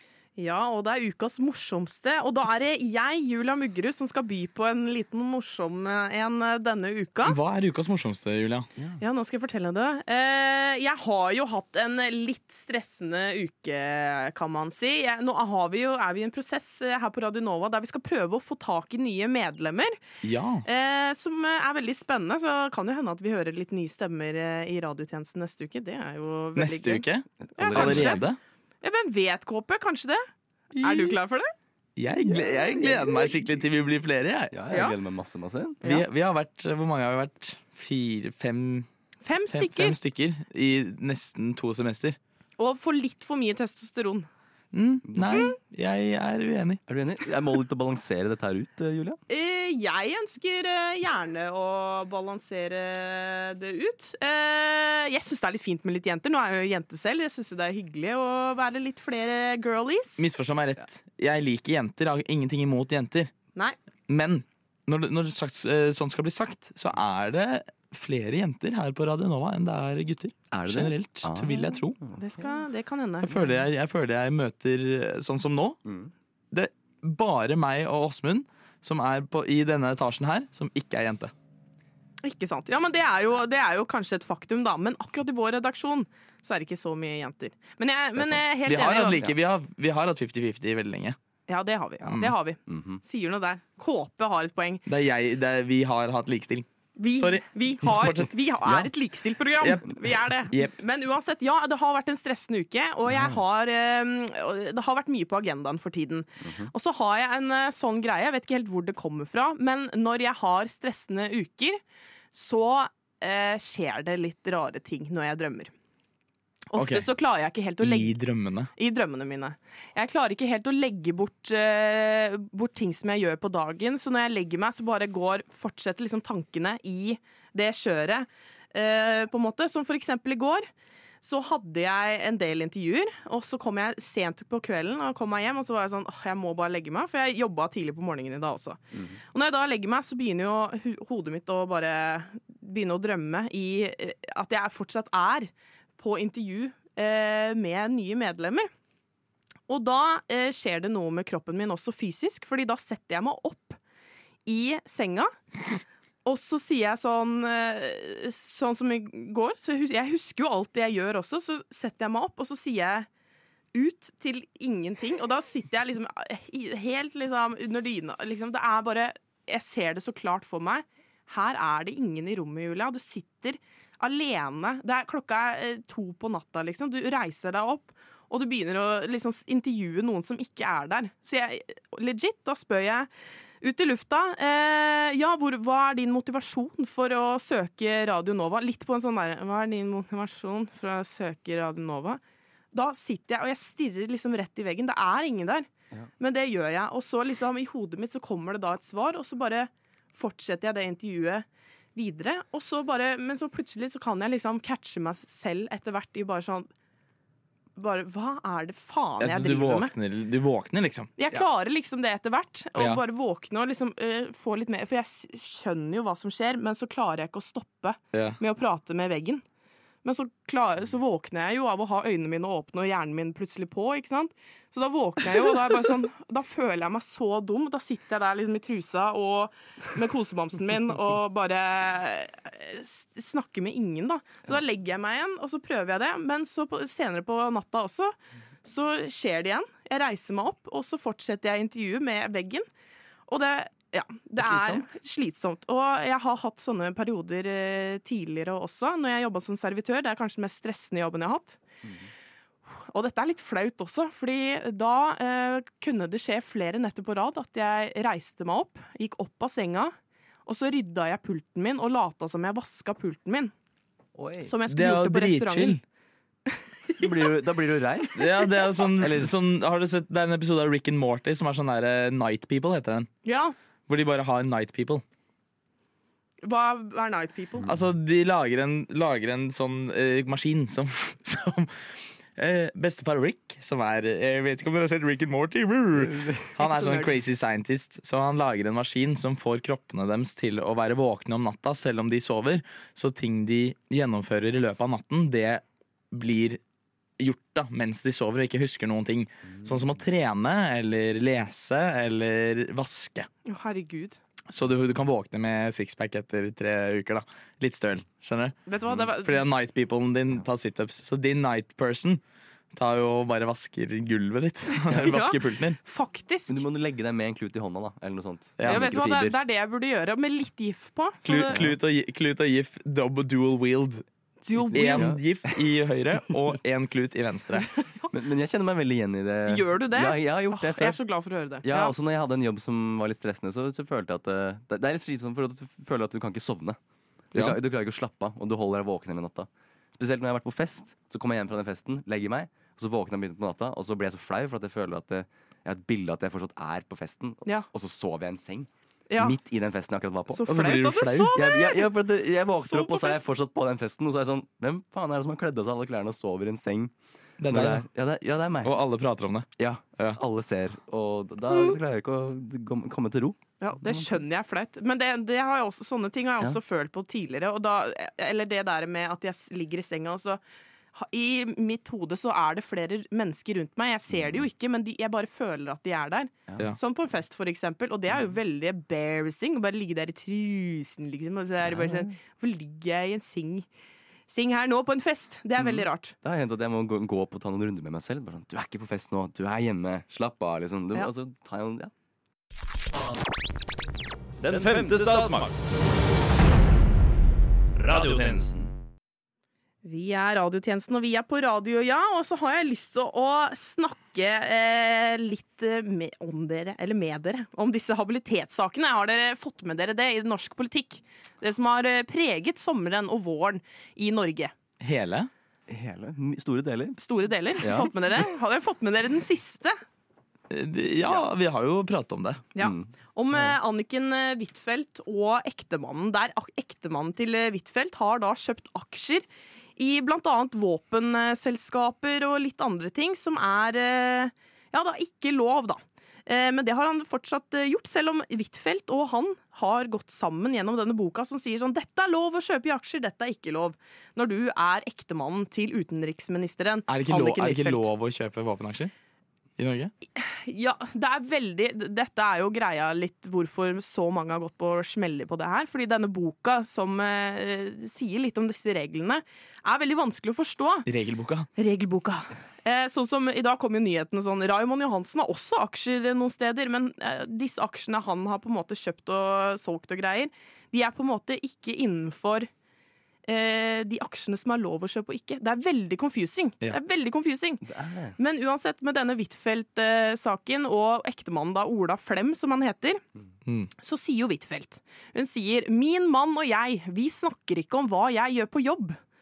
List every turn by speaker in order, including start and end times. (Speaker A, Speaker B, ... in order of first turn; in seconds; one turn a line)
Speaker A: 0.4-7.4
Speaker B: 7.2-8.7
Speaker A: 9.0-20.0
Speaker B: 20.2-20.6
Speaker A: 20.6-28.3
Speaker B: 26.6-28.4
Speaker C: 27.6-28.2
Speaker A: 28.8-30.3
Speaker B: 30.8-31.1
Speaker A: 30.8-31.5
Speaker B: 32.0-34.5
Speaker A: 32.6-33.3
Speaker C: 34.5-35.8
Speaker A: 34.7-35.0
Speaker B: 35.8-38.9
Speaker A: 39.2-40.0
Speaker B: 39.5-42.2
Speaker A: 42.6-44.3
Speaker B: 44.7-46.8
Speaker C: 45.1-45.4
Speaker C: 46.9-49.2
Speaker A: 49.3-60.2
Speaker B: 60.2-63.3
Speaker B: 64.1-72.0
Speaker C: 70.5-72.2
Speaker A: 72.2-73.5
Speaker B: 73.2-75.8
Speaker C: 75.8-76.1
Speaker B: 76.5-81.3
Speaker A: 82.2-89.3
Speaker C: 88.2-88.6
Speaker B: 88.7-91.2
Speaker A: 91.5-94.8
Speaker B: 92.0-92.3
Speaker C: 92.7-93.0
Speaker B: 94.9-98.3
Speaker A: 97.0-111.8
Speaker C: 98.6-98.9
Speaker B: 99.6-100.7
Speaker B: 103.1-103.4
Speaker C: 106.4-106.7
Speaker A: 112.3-115.7
Speaker A: 116.7-118.2
Speaker B: 116.7-117.1
Speaker B: 117.8-118.7
Speaker A: 118.8-130.7
Speaker A: 131.2-138.8
Speaker C: 138.9-139.2
Speaker A: 139.3-148.7
Speaker A: 149.7-153.8
Speaker A: 154.4-155.3
Speaker A: 156.2-163.1
Speaker A: 163.7-183.1
Speaker A: 183.6-192.2
Speaker A: 192.7-195.7
Speaker A: 196.2-206.7
Speaker A: 207.8-209.9
Speaker B: 209.2-211.4
Speaker A: 211.2-219.4
Speaker B: 218.1-218.4
Speaker A: 220.0-242.7
Speaker A: 243.3-251.6
Speaker C: 244.4-244.9
Speaker A: 252.7-259.9
Speaker A: 260.4-263.5
Speaker C: 264.1-264.5
Speaker A: 264.4-265.8
Speaker B: 264.7-265.8
Speaker A: 266.5-267.1
Speaker C: 267.0-269.3
Speaker B: 268.1-273.1
Speaker A: 273.2-273.5
Speaker B: 273.9-275.0
Speaker A: 276.4-277.7
Speaker B: 277.6-296.6
Speaker C: 285.9-286.5
Speaker A: 286.6-287.1
Speaker B: 297.2-303.3
Speaker A: 303.4-304.2
Speaker B: 304.5-308.6
Speaker A: 308.7-309.4
Speaker B: 309.1-312.2
Speaker B: 312.7-315.8
Speaker A: 314.7-316.6
Speaker C: 316.5-319.4
Speaker B: 318.6-318.9
Speaker A: 318.6-321.6
Speaker B: 321.2-324.0
Speaker A: 324.4-325.1
Speaker C: 324.5-325.6
Speaker B: 324.7-327.7
Speaker A: 327.7-328.1
Speaker C: 328.1-331.0
Speaker A: 329.4-331.9
Speaker C: 331.6-336.8
Speaker C: 337.3-350.5
Speaker A: 349.1-349.4
Speaker A: 350.3-351.9
Speaker B: 350.5-351.3
Speaker C: 351.3-356.9
Speaker A: 352.6-353.2
Speaker B: 357.4-357.9
Speaker C: 357.5-358.8
Speaker B: 358.6-360.2
Speaker C: 359.6-364.1
Speaker A: 363.6-370.4
Speaker A: 370.9-383.7
Speaker C: 374.1-374.4
Speaker C: 376.5-376.7
Speaker C: 381.6-382.1
Speaker A: 384.3-386.1
Speaker C: 385.6-391.9
Speaker D: 394.4-395.5
Speaker C: 394.5-395.4
Speaker D: 397.8-398.6
Speaker A: 399.8-414.5
Speaker B: 414.8-415.3
Speaker C: 415.7-417.0
Speaker A: 417.0-419.8
Speaker C: 417.6-417.9
Speaker B: 420.5-422.4
Speaker A: 422.5-447.9
Speaker C: 422.6-422.9
Speaker B: 446.9-448.9
Speaker B: 449.6-449.9
Speaker A: 450.1-460.9
Speaker B: 460.9-461.5
Speaker A: 461.6-472.5
Speaker A: 473.3-477.6
Speaker C: 477.6-478.2
Speaker A: 478.2-483.0
Speaker B: 483.4-483.7
Speaker A: 483.8-489.0